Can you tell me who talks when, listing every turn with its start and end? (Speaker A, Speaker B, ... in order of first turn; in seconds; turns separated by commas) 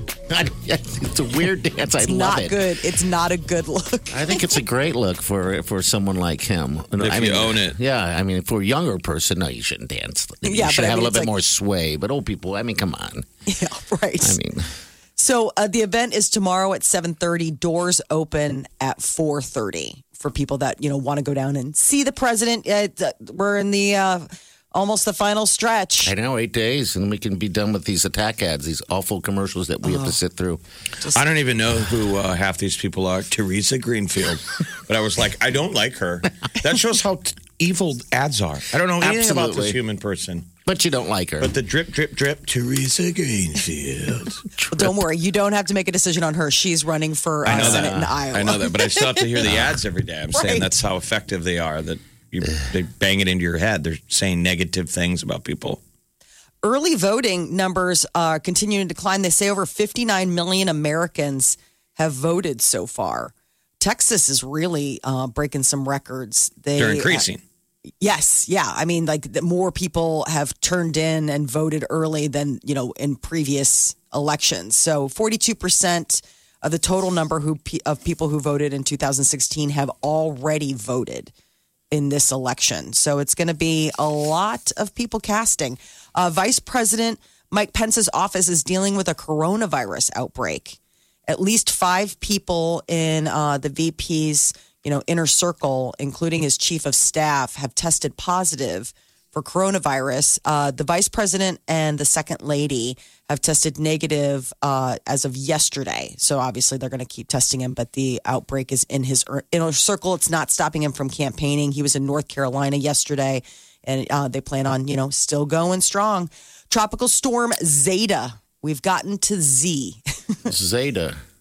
Speaker A: 0.3-2.6, Speaker B: 2.0-4.6, Speaker A: 4.1-13.3, Speaker C: 7.0-7.8, Speaker B: 10.4-11.3, Speaker B: 13.5-14.4, Speaker A: 14.2-14.7, Speaker B: 15.2-26.1, Speaker A: 26.0-30.6, Speaker B: 29.8-30.1, Speaker C: 31.1-40.5, Speaker A: 39.0-39.8, Speaker A: 40.6-41.5, Speaker C: 41.4-44.4, Speaker A: 44.6-45.0, Speaker B: 44.7-49.2, Speaker C: 47.5-55.8, Speaker A: 47.5-48.2, Speaker A: 49.4-49.8, Speaker B: 50.3-50.6, Speaker B: 56.6-67.3, Speaker C: 66.8-67.4, Speaker B: 68.0-81.3, Speaker B: 81.9-120.4, Speaker A: 120.5-121.2